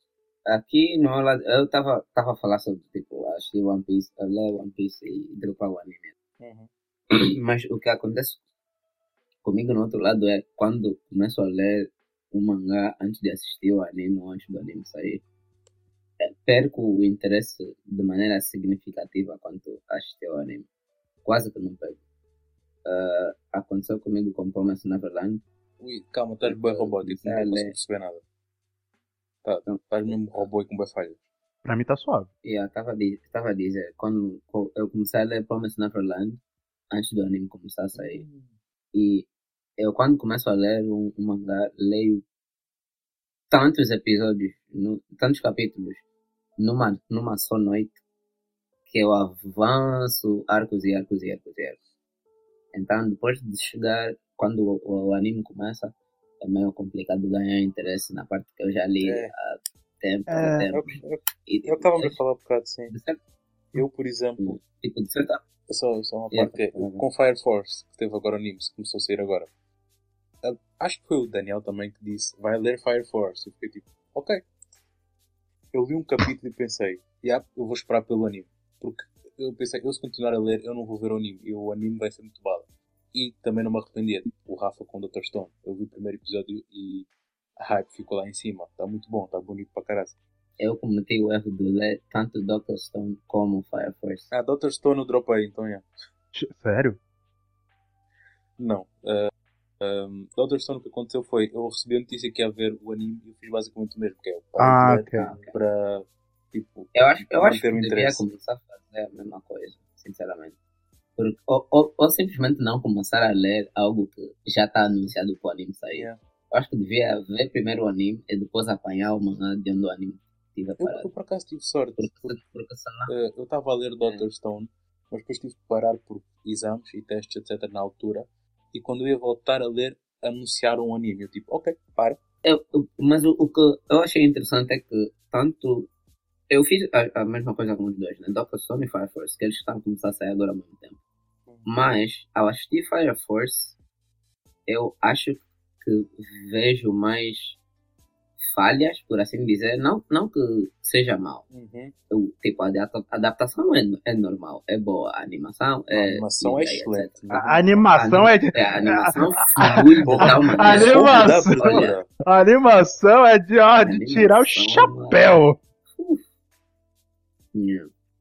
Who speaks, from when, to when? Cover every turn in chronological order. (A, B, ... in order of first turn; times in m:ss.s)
0:00.5-0:06.1 A
0:06.4-0:06.7 B
0:07.1-0:08.4 A
0:09.4-0:15.2 A
0:16.2-0:20.7 A
0:21.2-0:22.0 A
0:22.8-0:25.4 A
0:25.8-0:28.2 B
0:26.4-0:27.7 A
0:29.4-0:31.2 B
0:29.6-0:30.4 A
0:31.6-0:32.3 C
0:32.4-0:36.4 A
0:36.9-0:38.2 A
0:37.9-0:38.5 B
0:38.9-0:39.3 A
0:39.8-0:42.2 A
0:43.5-0:46.0 A
0:46.6-0:48.0 A
0:48.9-0:51.8 A
0:52.7-1:02.2 A
0:59.0-0:59.3 B
1:00.3-1:00.7 C
1:00.7-1:02.9 B
1:02.9-1:03.2 A
1:03.7-1:04.6 B
1:04.4-1:05.4 A
1:05.7-1:09.5 B
1:06.3-1:07.0 A
1:10.4-1:14.4 B
1:15.7-1:27.1 B
1:27.6-1:30.1 B
1:30.6-1:34.3 A
1:34.3-1:35.9 B
1:36.3-1:37.0 C
1:38.6-1:48.2 B
1:44.6-1:45.3 C
1:45.2-1:45.5 A
1:46.9-1:50.6 A
1:51.2-2:01.1 A
1:55.9-1:56.2 B
2:00.8-2:02.3 B
2:02.0-2:03.1 A
2:03.1-2:12.2 B
2:12.4-2:15.9 A
2:16.5-2:21.0 A
2:21.6-2:23.7 A
2:24.7-2:27.6 A
2:28.4-2:31.4 A
2:31.5-2:31.9 B
2:32.1-2:37.1 A
2:35.9-2:37.8 B
2:37.3-2:45.6 C
2:38.0-2:42.0 A
2:40.0-2:42.1 B
2:43.8-2:45.4 A
2:46.0-2:46.2 A
2:47.5-2:47.9 A